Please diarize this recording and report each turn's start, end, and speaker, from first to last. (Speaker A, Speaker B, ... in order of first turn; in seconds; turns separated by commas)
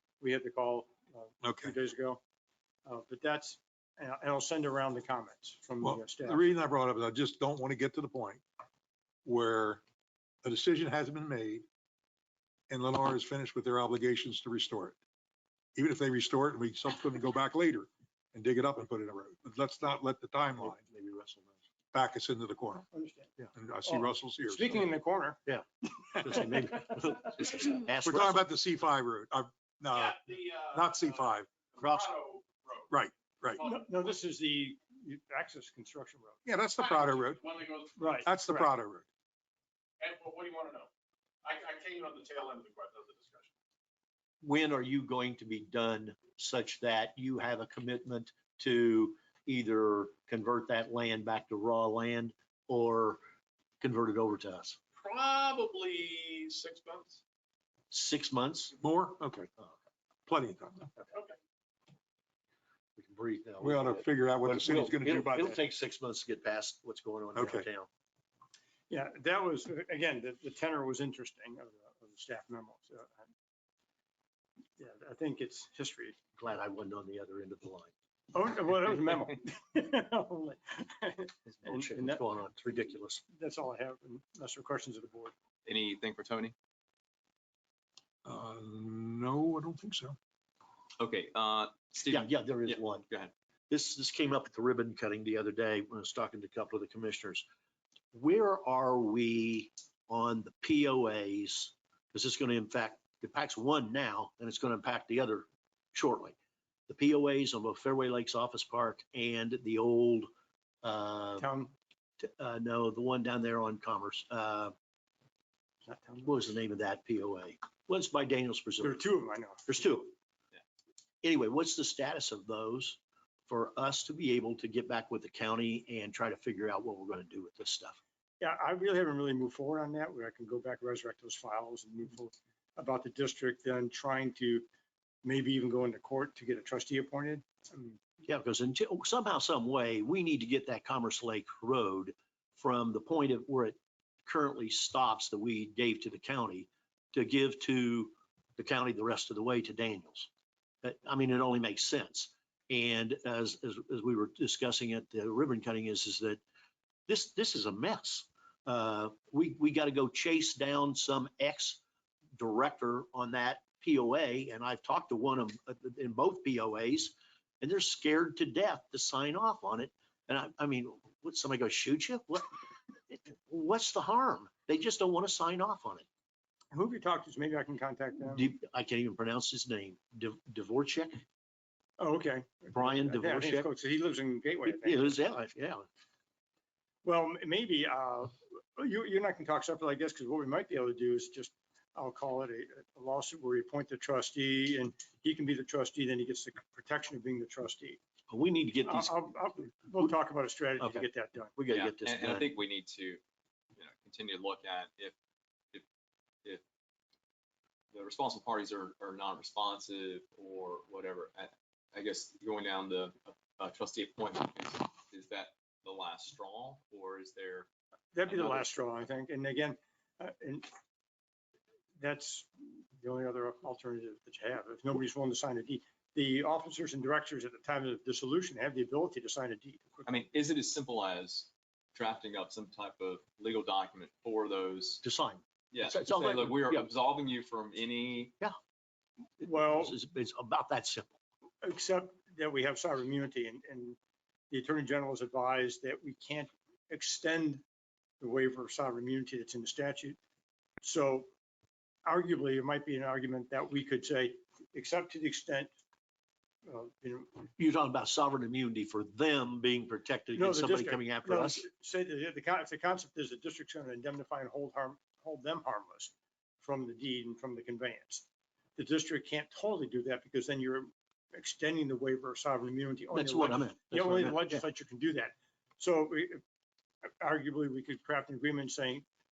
Speaker A: 0.2-2.2, Speaker B: 1.4-1.7, Speaker A: 2.9-6.6, Speaker B: 5.8-8.4, Speaker B: 9.2-9.8, Speaker B: 10.4-11.7, Speaker B: 12.7-15.0, Speaker B: 15.7-20.8, Speaker C: 20.6-21.6, Speaker B: 21.9-22.9, Speaker A: 22.9-25.4, Speaker B: 23.5-24.9, Speaker C: 25.4-28.4, Speaker B: 28.0-31.5, Speaker D: 29.9-32.9, Speaker C: 31.8-32.1, Speaker B: 32.9-33.6, Speaker A: 33.6-36.4, Speaker B: 36.4-37.4, Speaker D: 36.8-38.1, Speaker A: 38.0-38.7, Speaker B: 38.2-39.1, Speaker D: 40.0-40.9, Speaker D: 41.4-43.5, Speaker C: 44.4-53.2, Speaker C: 53.8-54.8, Speaker D: 55.0-57.2, Speaker C: 57.9-58.7, Speaker B: 58.8-59.5, Speaker B: 60.3-60.9, Speaker C: 63.0-67.9, Speaker B: 63.6-65.6, Speaker B: 67.3-67.7, Speaker A: 68.9-73.2, Speaker A: 74.8-76.2, Speaker C: 76.4-77.9, Speaker A: 78.3-82.2, Speaker C: 81.5-83.2, Speaker A: 83.3-85.3, Speaker E: 85.6-86.5, Speaker B: 88.2-90.2, Speaker E: 91.0-93.3, Speaker C: 92.0-93.1, Speaker C: 93.7-97.4, Speaker C: 98.1-106.3, Speaker C: 106.9-110.3, Speaker C: 110.8-111.5, Speaker A: 111.4-111.7, Speaker C: 112.2-114.7, Speaker A: 115.8-116.4, Speaker C: 116.2-119.0, Speaker A: 118.8-119.8, Speaker C: 119.7-120.1, Speaker C: 121.2-128.0, Speaker A: 128.4-134.7, Speaker A: 135.2-138.0, Speaker C: 138.2-150.3, Speaker C: 150.8-156.4, Speaker C: 157.1-161.8, Speaker C: 162.3-172.5, Speaker C: 173.1-176.1, Speaker A: 176.7-178.5, Speaker C: 178.3-181.2, Speaker A: 182.0-185.1, Speaker C: 182.7-183.7, Speaker C: 184.6-185.8, Speaker A: 187.0-198.0, Speaker C: 198.3-199.3, Speaker A: 198.8-201.5, Speaker C: 200.8-201.1, Speaker C: 201.6-202.5, Speaker E: 201.7-203.2, Speaker E: 203.8-205.1, Speaker E: 207.9-217.7, Speaker A: 218.1-220.7, Speaker E: 218.2-218.7, Speaker A: 222.0-230.1, Speaker E: 230.1-235.0, Speaker C: 235.0-236.9, Speaker E: 235.7-238.3, Speaker A: 239.4-240.0, Speaker C: 239.4-241.2, Speaker A: 241.6-244.0, Speaker A: 244.5-247.6, Speaker A: 248.2-250.2, Speaker A: 250.8-251.3, Speaker A: 252.0-255.7, Speaker A: 256.6-257.5, Speaker C: 257.6-261.6, Speaker A: 260.3-268.2, Speaker A: 268.8-276.4, Speaker C: 273.1-274.6, Speaker A: 277.1-279.0